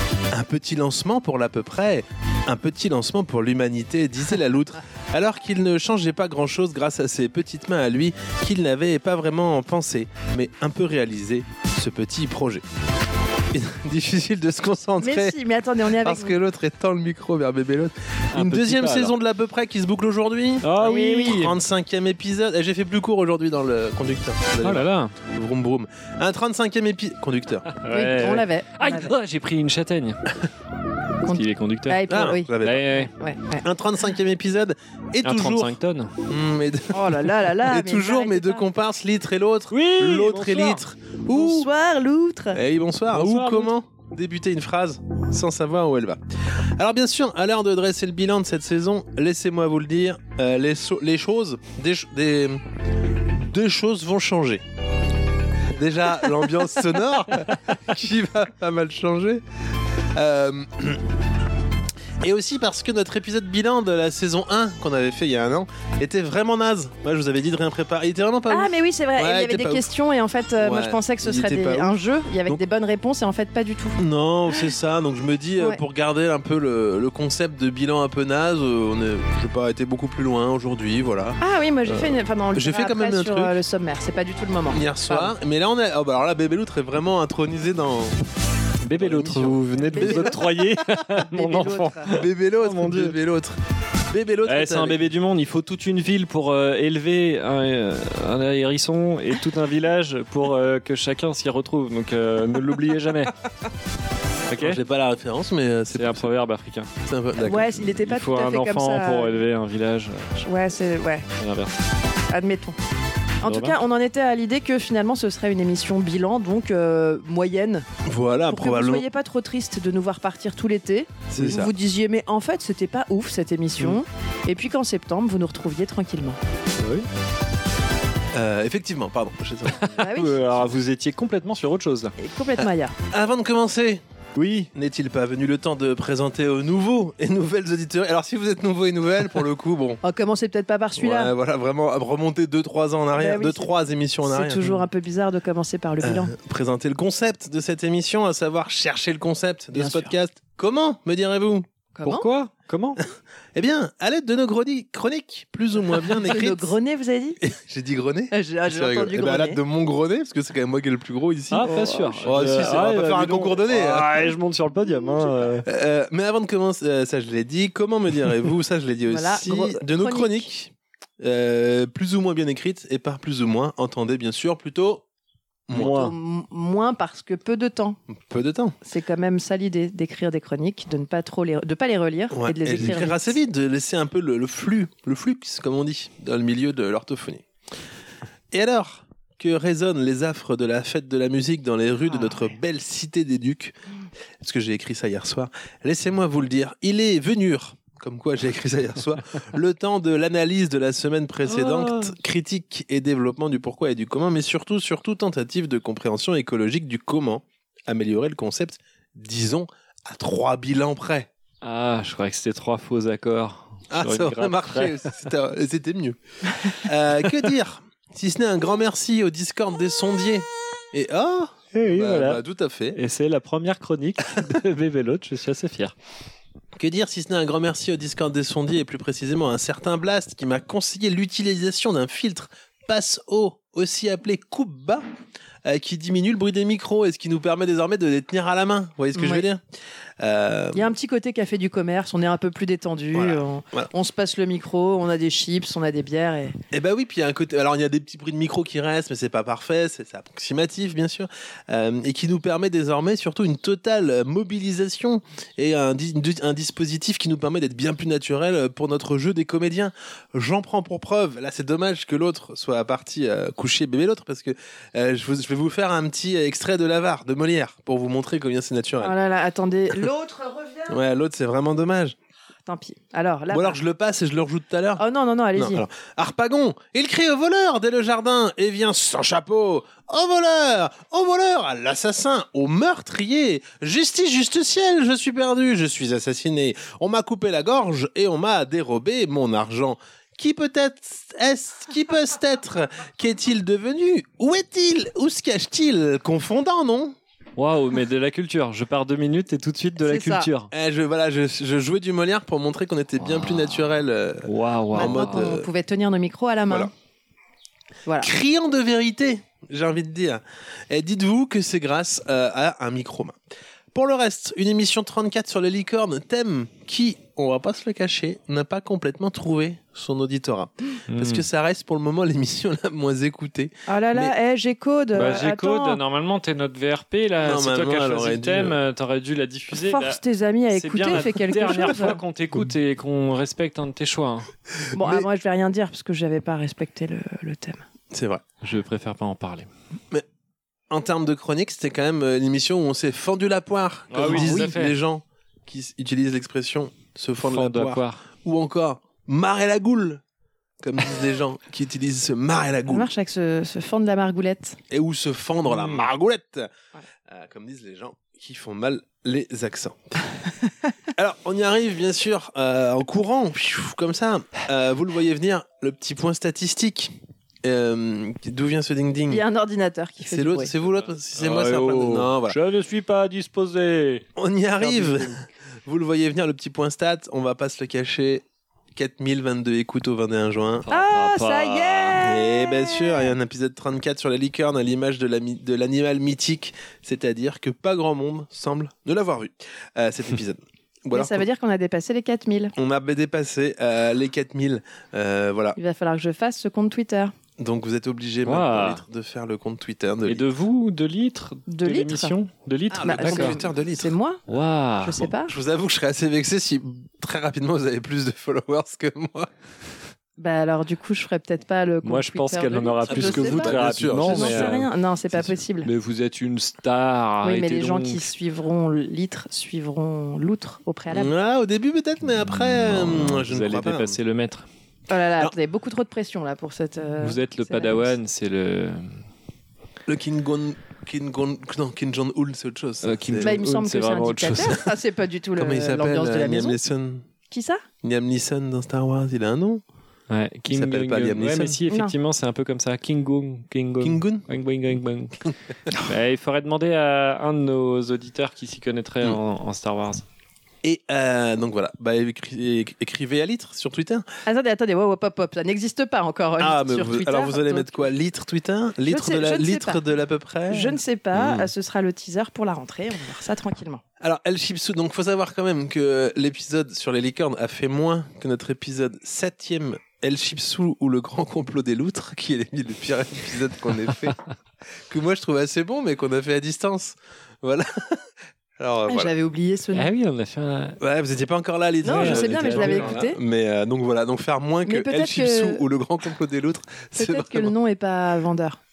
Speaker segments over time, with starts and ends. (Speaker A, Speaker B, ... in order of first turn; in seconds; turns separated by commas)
Speaker A: 0.3-12.6, Speaker A: 13.5-15.4, Speaker B: 15.0-16.4, Speaker A: 15.9-27.7, Speaker C: 18.3-19.1, Speaker C: 20.6-21.6, Speaker B: 20.8-21.5, Speaker C: 24.6-25.1, Speaker C: 27.7-30.2, Speaker B: 27.9-29.1, Speaker B: 31.2-33.6, Speaker C: 31.3-32.0, Speaker A: 32.1-32.9, Speaker C: 32.6-33.1, Speaker A: 33.6-41.7, Speaker C: 35.2-36.1, Speaker B: 36.9-38.7, Speaker C: 39.7-40.8, Speaker B: 41.3-42.6, Speaker A: 42.5-46.2, Speaker C: 43.1-43.7, Speaker A: 46.8-52.6, Speaker A: 53.4-54.6, Speaker A: 55.7-59.4, Speaker A: 60.1-61.0, Speaker A: 62.2-69.8, Speaker B: 68.5-74.0, Speaker A: 70.6-71.9, Speaker A: 74.0-81.4, Speaker B: 81.4-85.3, Speaker A: 82.5-83.6, Speaker A: 84.7-88.2, Speaker C: 88.8-93.2, Speaker A: 88.9-90.6, Speaker B: 89.9-90.5, Speaker B: 91.2-92.2, Speaker A: 92.1-93.6, Speaker A: 94.1-95.0, Speaker C: 94.5-103.3, Speaker C: 104.5-104.8, Speaker A: 104.6-106.3, Speaker C: 105.9-106.9, Speaker A: 107.0-107.9, Speaker B: 107.4-109.5, Speaker C: 108.0-110.5, Speaker B: 110.4-111.3, Speaker C: 111.4-111.8, Speaker B: 112.3-112.8, Speaker B: 113.4-117.9, Speaker C: 113.5-113.8, Speaker A: 118.0-119.0, Speaker B: 118.5-126.4, Speaker A: 121.3-121.7, Speaker C: 126.8-127.1, Speaker A: 128.3-130.1, Speaker C: 129.8-132.1, Speaker B: 129.9-130.4, Speaker B: 132.2-132.9, Speaker A: 133.1-134.0, Speaker C: 134.3-134.7, Speaker A: 134.7-140.0, Speaker B: 140.0-141.3, Speaker A: 141.0-144.8, Speaker B: 143.2-143.7, Speaker B: 144.2-146.3, Speaker A: 146.0-151.7, Speaker B: 149.7-150.1, Speaker B: 151.9-152.3, Speaker C: 152.0-153.0, Speaker A: 153.5-156.7, Speaker B: 156.2-157.4, Speaker A: 157.4-161.7, Speaker B: 158.3-159.6, Speaker C: 161.5-165.7, Speaker B: 161.6-162.3, Speaker A: 162.2-164.3, Speaker A: 165.6-175.0, Speaker B: 169.1-170.5, Speaker C: 175.7-176.1, Speaker B: 175.7-178.0, Speaker A: 178.3-178.8, Speaker B: 178.8-183.4, Speaker A: 182.3-187.4, Speaker A: 188.5-193.8, Speaker A: 194.4-211.3, Speaker C: 201.5-202.1, Speaker C: 211.6-215.1, Speaker A: 213.9-223.0, Speaker C: 221.7-222.4, Speaker C: 222.9-225.9, Speaker A: 226.8-235.0, Speaker A: 235.6-239.6, Speaker B: 239.1-239.4, Speaker A: 240.2-240.9, Speaker B: 240.7-246.6, Speaker A: 243.1-243.9, Speaker A: 246.7-269.1, Speaker B: 269.0-271.0, Speaker A: 270.9-272.1, Speaker B: 272.6-273.8, Speaker A: 273.5-275.0, Speaker B: 275.0-275.8, Speaker A: 275.6-297.1, Speaker C: 297.6-300.7, Speaker B: 300.0-300.5, Speaker A: 300.7-305.7, Speaker C: 303.2-305.4, Speaker B: 304.9-306.9, Speaker B: 308.1-308.3, Speaker A: 308.2-313.4, Speaker A: 313.9-324.3, Speaker C: 321.1-321.4, Speaker B: 323.9-326.0, Speaker C: 325.1-330.2, Speaker A: 327.4-328.8, Speaker B: 329.7-332.2, Speaker C: 330.7-334.5, Speaker A: 334.9-335.2, Speaker B: 334.9-337.8, Speaker A: 338.1-338.4, Speaker C: 338.6-339.7, Speaker A: 340.9-350.2, Speaker C: 344.1-344.9, Speaker C: 347.4-348.2, Speaker A: 350.8-353.1, Speaker B: 352.9-354.8, Speaker A: 354.9-356.7, Speaker C: 355.7-356.1, Speaker A: 357.3-360.2, Speaker A: 361.1-369.4, Speaker B: 369.3-370.7, Speaker A: 370.2-372.6, Speaker C: 370.9-374.2, Speaker A: 374.4-375.3, Speaker C: 374.8-375.4, Speaker A: 375.9-378.4, Speaker A: 378.9-380.9, Speaker C: 380.9-382.2, Speaker B: 380.9-383.3, Speaker A: 382.2-391.4, Speaker B: 391.1-392.7, Speaker A: 392.8-395.8, Speaker B: 395.8-397.3, Speaker A: 397.6-400.4, Speaker C: 398.4-399.0, Speaker C: 400.2-403.6, Speaker B: 401.7-402.3, Speaker A: 402.9-404.1, Speaker B: 403.0-404.4, Speaker C: 404.5-405.3, Speaker B: 405.0-405.6, Speaker A: 405.5-409.5, Speaker B: 410.4-415.9, Speaker C: 412.0-414.8, Speaker A: 413.1-414.8, Speaker C: 415.8-418.2, Speaker B: 417.4-421.3, Speaker A: 421.1-424.2, Speaker C: 422.5-424.6, Speaker B: 425.1-428.1, Speaker C: 427.2-429.2, Speaker A: 430.1-433.6, Speaker C: 433.0-434.8, Speaker B: 433.4-436.8, Speaker A: 435.6-437.3, Speaker B: 437.5-437.8, Speaker A: 438.0-439.8, Speaker C: 440.3-450.2, Speaker A: 440.7-441.8, Speaker B: 441.9-442.1, Speaker A: 444.0-444.4, Speaker A: 450.8-454.2, Speaker B: 454.4-458.1, Speaker A: 456.6-461.6, Speaker B: 459.0-460.0, Speaker B: 460.7-464.0, Speaker A: 464.2-474.4, Speaker A: 475.1-478.2, Speaker A: 478.8-479.3, Speaker B: 479.1-480.1, Speaker C: 479.9-481.0, Speaker A: 481.0-487.7, Speaker B: 482.0-483.4, Speaker C: 482.0-483.1, Speaker B: 484.8-485.8, Speaker B: 487.1-488.8